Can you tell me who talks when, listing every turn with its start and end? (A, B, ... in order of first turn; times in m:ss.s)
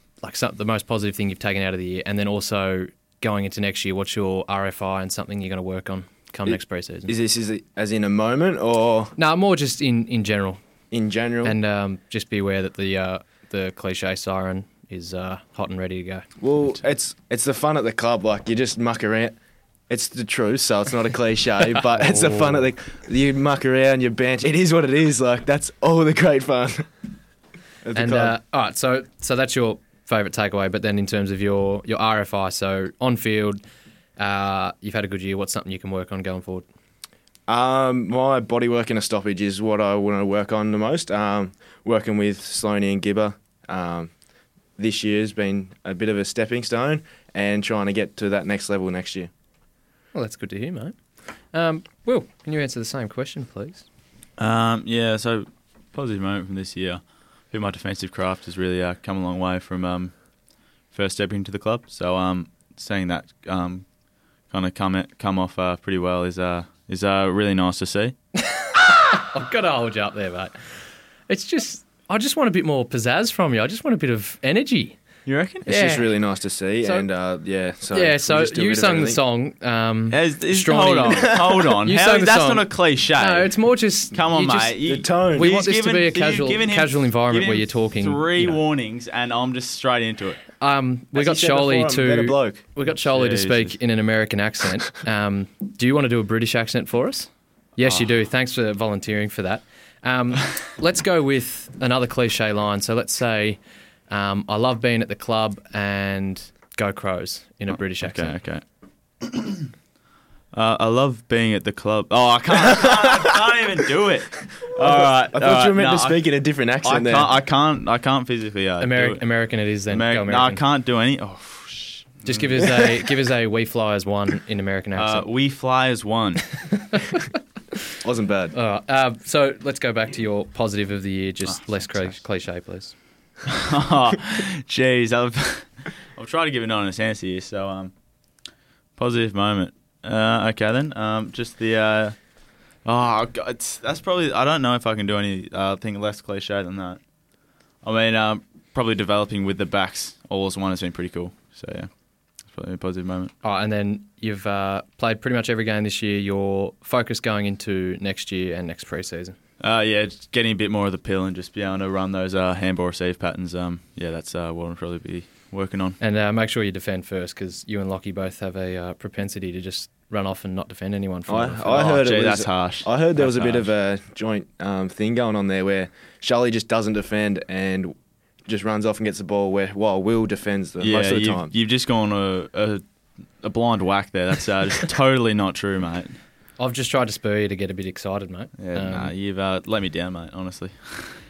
0:00.2-0:07.1 A
0:06.4-0:09.1 B
0:09.2-0:10.6 A
0:10.9-0:11.6 B
0:11.4-0:16.2 A
0:16.4-0:19.4 B
0:19.9-0:26.9 B
0:27.8-0:28.4 B
0:27.9-0:33.6 A
0:34.2-0:36.6 A
0:37.5-0:44.1 B
0:44.8-0:49.3 B
0:50.1-0:51.0 A
0:51.5-0:53.8 A
0:54.4-1:00.1 C
1:00.9-1:03.8 C
1:04.5-1:08.1 C
1:08.4-1:10.5 A
1:11.3-1:15.0 A
1:15.2-1:15.7 C
1:15.6-1:19.2 B
1:15.7-1:16.2 A
1:16.8-1:17.1 A
1:17.9-1:28.6 A
1:20.1-1:23.6 C
1:21.1-1:21.5 B
1:24.1-1:30.4 C
1:24.8-1:25.5 B
1:30.6-1:48.4 A
1:31.1-1:32.6 B
1:33.0-1:33.8 C
1:47.7-1:48.6 C
1:49.2-1:49.7 C
1:50.5-1:56.3 C
1:54.7-1:57.3 B
1:56.8-1:59.2 C
1:58.8-2:00.6 A
1:59.9-2:02.7 C
2:02.2-2:05.3 A
2:05.0-2:06.5 C
2:06.7-2:07.2 A
2:08.0-2:08.5 B
2:08.5-2:12.9 A
2:11.9-2:12.1 C
2:13.5-2:17.9 C
2:19.0-2:22.2 C
2:22.8-2:27.0 C
2:27.8-2:31.9 C
2:32.5-2:33.3 C
2:33.4-2:39.4 A
2:39.6-2:46.0 C
2:46.0-2:52.0 A
2:51.3-2:57.9 B
2:51.7-2:53.7 C
2:58.4-3:01.5 B
3:00.8-3:02.8 C
3:03.4-3:06.2 C
3:06.6-3:09.1 A
3:08.6-3:11.2 C